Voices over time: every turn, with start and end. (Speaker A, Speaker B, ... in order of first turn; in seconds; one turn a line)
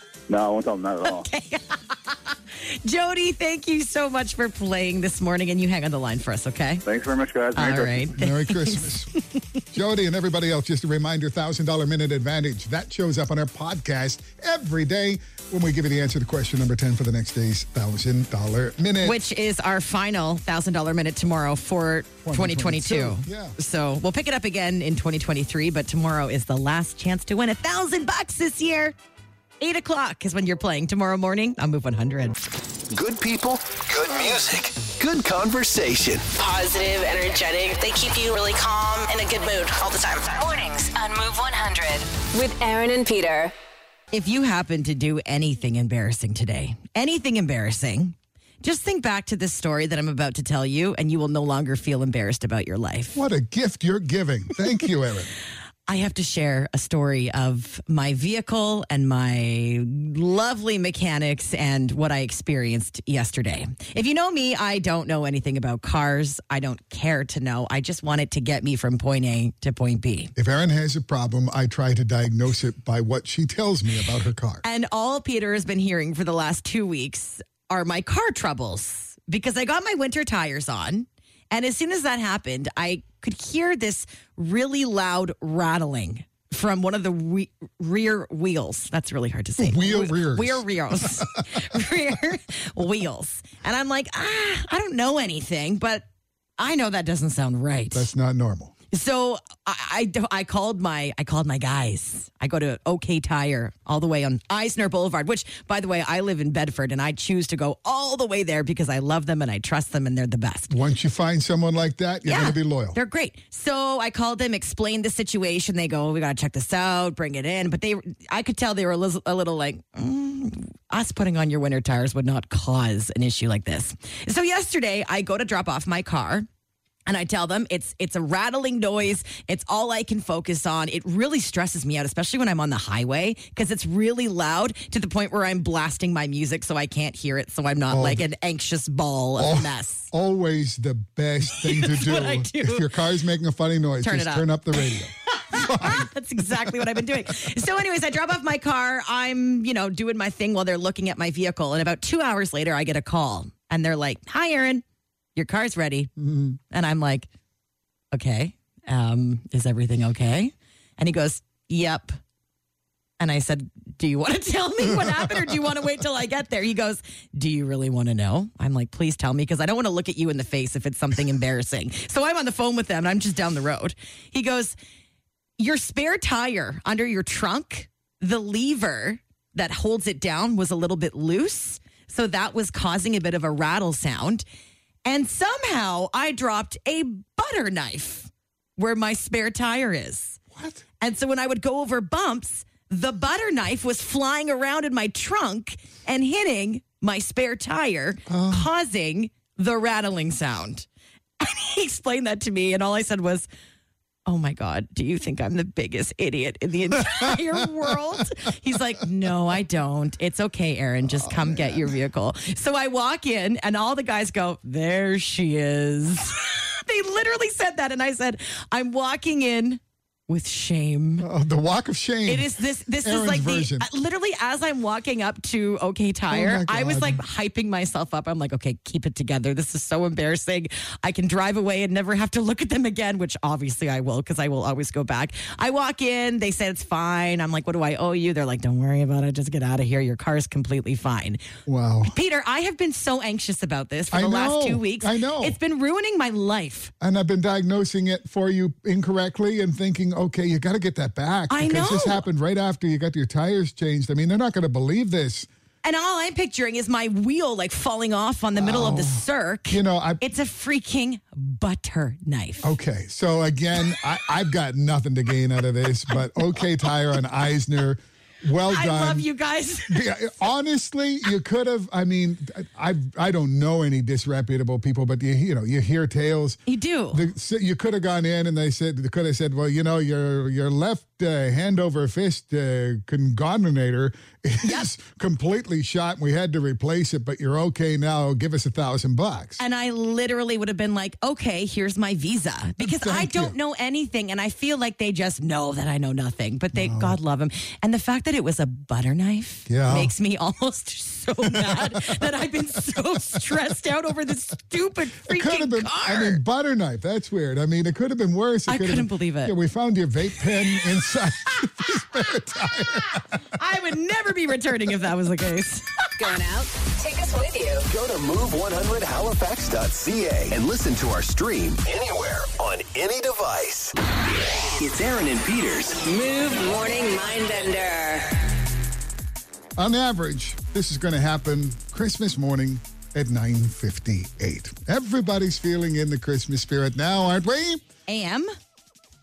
Speaker A: 0.3-1.3
Speaker B: 1.0-6.8
Speaker A: 6.9-8.2
Speaker B: 7.5-9.4
Speaker C: 8.2-9.1
Speaker C: 9.7-19.2
Speaker B: 19.0-28.9
Speaker C: 22.2-23.6
Speaker B: 29.6-32.4
Speaker D: 32.9-36.3
Speaker E: 36.3-43.5
Speaker B: 44.1-53.2
Speaker C: 53.1-55.3
Speaker B: 55.9-70.3
Speaker C: 70.4-74.6
Speaker B: 74.6-96.1
Speaker C: 89.6-91.8
Speaker B: 96.6-98.1
Speaker C: 97.9-98.7
Speaker B: 98.9-110.7
Speaker C: 110.7-113.0
Speaker B: 112.2-126.5
Speaker B: 127.1-140.1
Speaker C: 137.9-138.2
Speaker C: 139.4-147.0
Speaker B: 141.5-142.9
Speaker B: 144.0-154.8
Speaker B: 155.3-156.1
Speaker C: 156.2-156.6
Speaker B: 156.7-157.3
Speaker B: 158.1-162.2
Speaker B: 163.2-174.8
Speaker C: 164.9-165.5
Speaker B: 175.6-184.4
Speaker B: 185.1-190.4
Speaker C: 190.5-190.8
Speaker B: 191.0-200.9
Speaker C: 198.3-198.7
Speaker B: 201.4-203.5
Speaker B: 204.3-221.3
Speaker C: 207.0-207.8
Speaker C: 211.1-211.9
Speaker C: 221.2-223.9
Speaker B: 222.3-241.4
Speaker C: 226.3-227.2
Speaker C: 241.7-242.2
Speaker B: 242.0-246.9
Speaker C: 244.1-245.6
Speaker C: 247.0-255.5
Speaker B: 251.5-252.2
Speaker B: 255.8-262.7
Speaker C: 258.6-260.2
Speaker C: 262.6-269.3
Speaker B: 268.7-270.1
Speaker C: 269.9-276.6
Speaker B: 276.7-277.3
Speaker C: 277.1-289.6
Speaker B: 284.6-284.9
Speaker B: 289.6-306.4
Speaker C: 292.8-293.6
Speaker C: 296.8-297.2
Speaker C: 299.7-300.1
Speaker C: 301.5-302.3
Speaker C: 303.3-303.6
Speaker C: 305.2-313.4
Speaker B: 308.7-309.6
Speaker B: 313.1-316.1
Speaker E: 316.2-317.9
Speaker D: 317.9-323.9
Speaker D: 324.8-326.0
Speaker E: 326.0-328.5
Speaker C: 329.8-337.8
Speaker B: 338.1-338.5